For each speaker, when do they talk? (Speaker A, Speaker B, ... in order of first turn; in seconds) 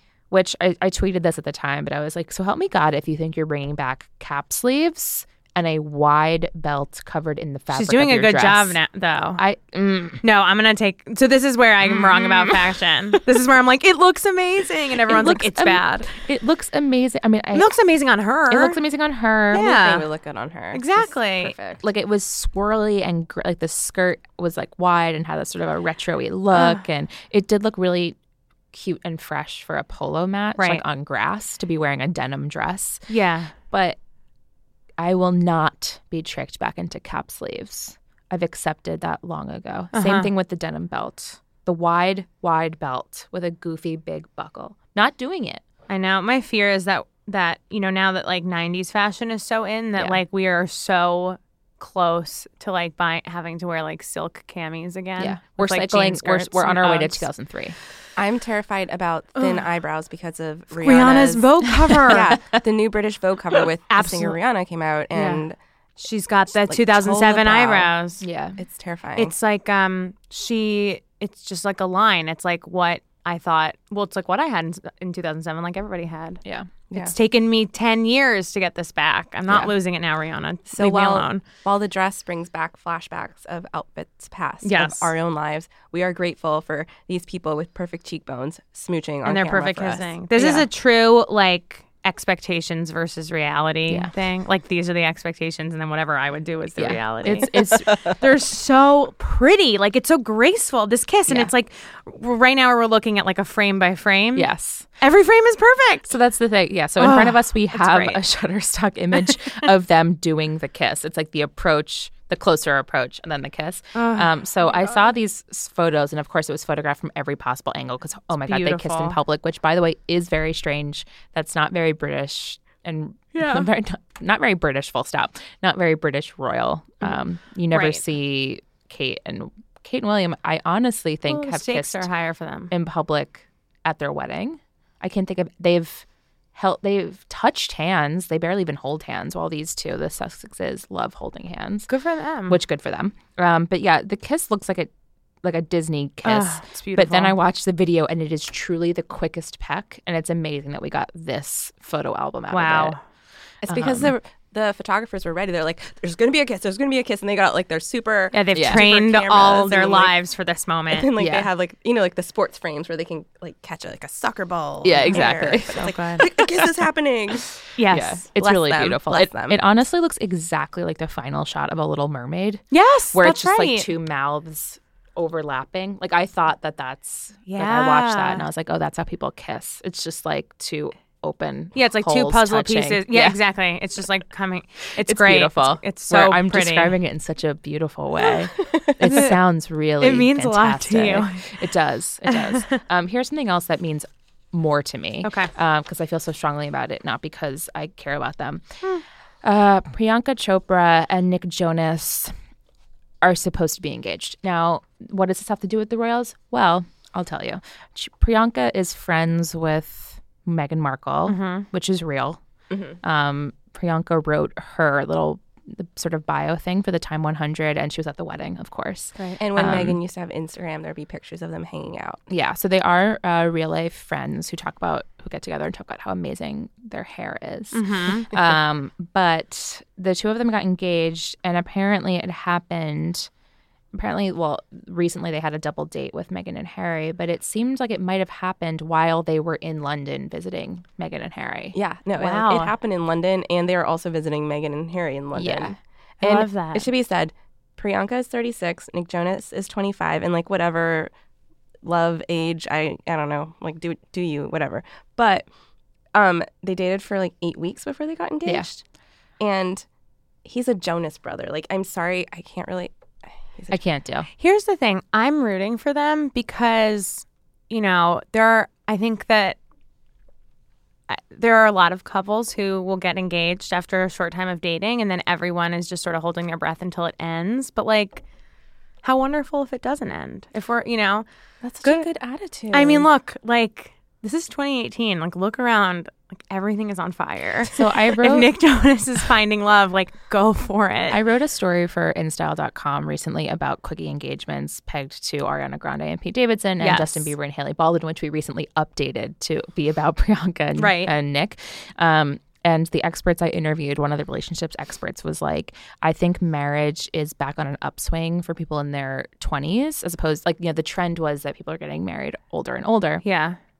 Speaker A: 0.3-8.8, 9.4-10.2, 11.8-12.6, 15.1-17.7, 18.5-19.7, 21.8-28.1, 28.7-33.0, 33.7-34.0, 35.0-45.6, 50.0-50.2, 55.2-57.8, 68.2-68.6, 76.4-76.7, 79.5-79.7, 93.9-94.1, 96.8-98.0, 104.3-104.9, 106.1-132.1, 132.7-141.9, 142.5-144.9, 145.4-152.9, 153.7-154.1, 158.5-158.8, 161.2-161.5, 164.8-166.8, 167.9-183.4, 185.0-198.8, 199.4-202.3, 203.2-212.4, 213.0-220.0, 222.3-233.3, 233.9-241.8, 245.3-245.8, 263.7-264.3, 287.7-288.5, 291.1-313.2
Speaker B: 7.7-9.4, 10.2-16.1, 17.5-18.8, 19.5-20.1, 20.7-21.6, 26.5-26.8, 30.6-30.8, 33.1-33.5, 39.9-40.3, 45.9-57.3, 60.8-62.3, 63.9-64.4, 65.1-65.4, 66.0-68.2, 69.2-76.4, 76.9-81.4, 84.6-85.1, 89.2-104.5, 105.0-106.1, 107.0-108.2, 109.2-109.6, 113.9-114.3, 118.4-119.2, 123.3-123.6, 127.7-128.0, 131.3-132.7, 141.9-142.6, 146.2-147.4, 152.5-153.0, 158.3-161.1, 165.1-166.2, 167.8-168.2, 172.7-173.9, 177.5-178.4, 181.7-187.0, 189.0-189.4, 190.0-191.5, 192.3-192.8, 195.2-195.5, 211.2-211.7, 219.2-219.4, 227.7-228.3, 242.2-242.7, 246.2-246.9, 264.4-269.6, 271.1-278.2, 279.0-281.2, 282.7-291.2, 296.8-297.3, 300.8-301.1, 313.2-313.6
Speaker C: 19.5-21.8, 58.1-65.5, 66.6-67.9, 68.6-69.3, 80.7-90.6, 153.6-160.2, 160.9-167.6, 168.4-169.6, 212.7-213.0, 219.4-222.2, 241.7-251.1, 251.8-255.4, 256.1-258.8, 259.4-259.8, 260.4-262.9, 263.5-263.8, 281.6-283.1